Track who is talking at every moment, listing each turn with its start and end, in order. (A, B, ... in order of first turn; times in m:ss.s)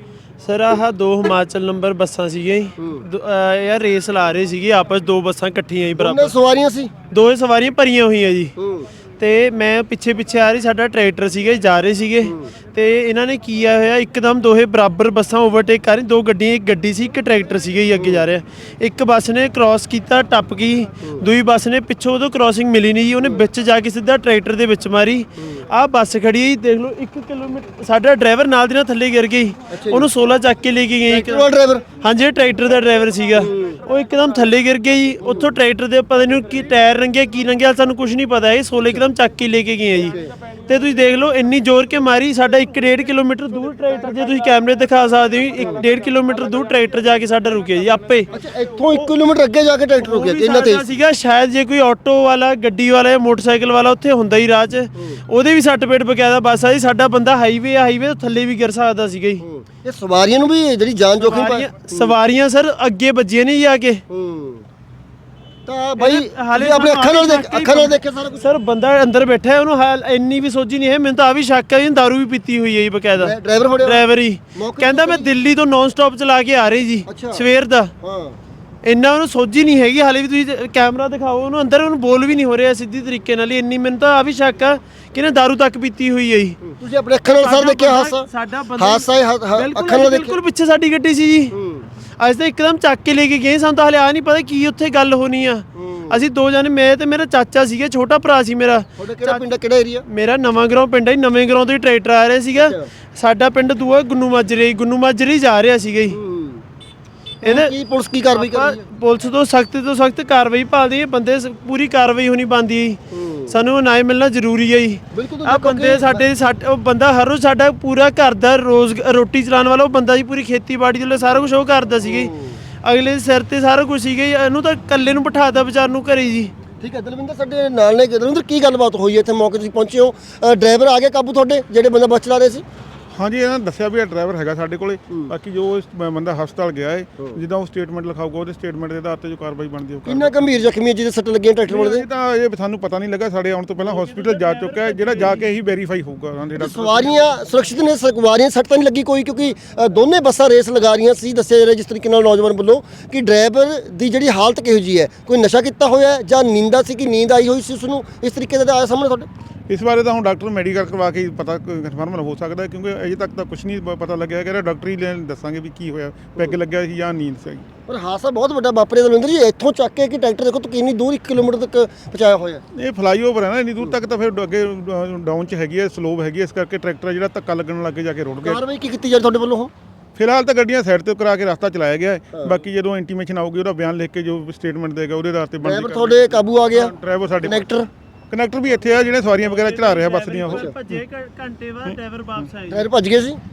0:00.4-0:06.3 A
0:02.8-0:03.0 B
0:06.0-0:06.9 B
0:07.1-0:08.5 A
0:08.6-0:08.9 B
0:09.2-0:31.5 A
0:12.2-0:12.5 B
0:17.9-0:18.2 B
0:29.7-0:30.1 B
0:31.1-0:31.8 B
0:32.0-0:48.3 A
0:33.4-0:33.8 B
0:35.2-0:35.5 B
0:48.3-0:50.8 B
0:50.0-0:59.4 A
0:59.4-1:02.1 B
1:01.2-1:04.0 A
1:04.1-1:04.6 B
1:05.6-1:08.5 B
1:06.0-1:17.9 A
1:13.2-1:14.0 B
1:14.5-1:15.3 B
1:17.1-1:17.4 B
1:18.0-1:18.4 B
1:18.8-1:26.6 A
1:26.6-1:30.4 B
1:27.3-1:31.5 A
1:31.5-1:31.9 B
1:32.2-1:39.4 A
1:35.7-1:36.2 B
1:39.0-1:40.0 B
1:40.0-1:46.2 A
1:42.6-1:42.9 B
1:46.1-1:46.6 B
1:47.4-1:47.7 A
1:47.4-1:48.8 B
1:48.3-2:02.3 A
1:53.1-1:53.6 B
1:55.1-1:56.2 B
2:02.0-2:02.6 B
2:02.8-2:06.5 A
2:06.8-2:12.6 B
2:13.2-2:20.6 C
2:20.0-2:22.0 B
2:21.7-2:27.4 C
2:23.8-2:25.5 A
2:26.6-2:39.3 B
2:39.7-2:47.6 C
2:47.9-2:52.6 B
2:52.7-2:58.6 C
2:58.4-2:59.7 B
3:00.2-3:07.7 C
3:05.6-3:07.9 B
3:08.3-3:10.9 C
3:09.4-3:12.9 A
3:12.7-3:13.4 B